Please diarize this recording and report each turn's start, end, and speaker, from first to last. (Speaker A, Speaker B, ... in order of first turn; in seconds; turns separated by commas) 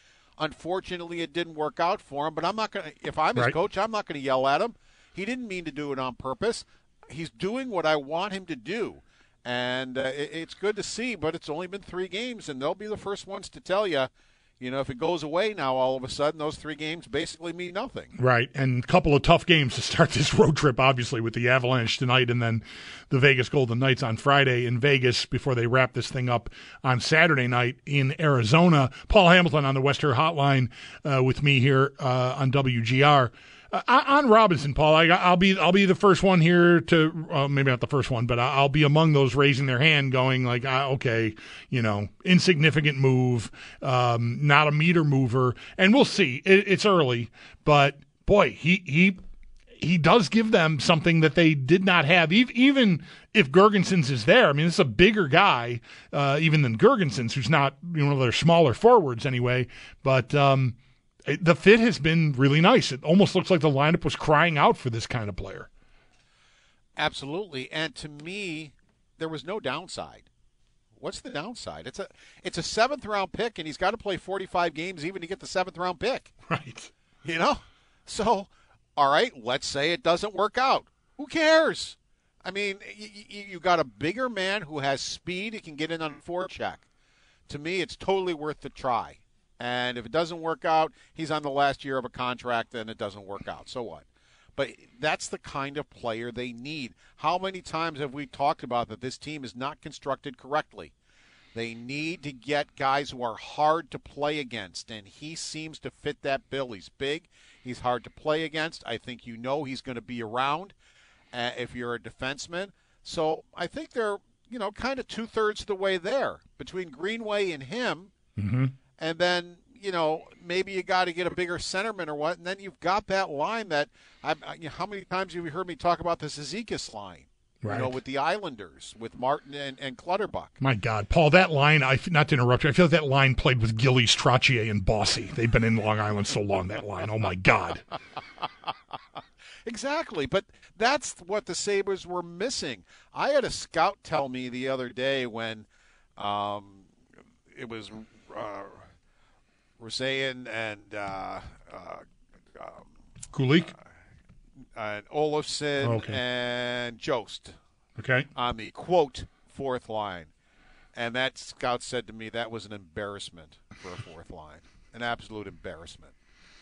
Speaker A: 0.4-18.1, Speaker B: 18.2-49.2, Speaker B: 49.8-60.8, Speaker B: 61.3-65.7, Speaker A: 67.0-70.3, Speaker A: 71.0-76.3, Speaker B: 76.5-76.9, Speaker A: 77.2-86.8, Speaker A: 87.5-100.9, Speaker A: 101.5-110.7, Speaker A: 111.3-118.1, Speaker B: 118.4-118.7, Speaker A: 119.0-130.6, Speaker B: 127.6-128.0, Speaker B: 130.6-137.8, Speaker A: 139.7-146.9, Speaker A: 147.5-148.9, Speaker A: 149.8-152.0, Speaker A: 152.6-152.9, Speaker B: 153.3-153.7, Speaker A: 154.8-157.6, Speaker B: 155.8-156.2, Speaker B: 158.0-158.3, Speaker A: 158.3-160.3, Speaker A: 160.9-166.1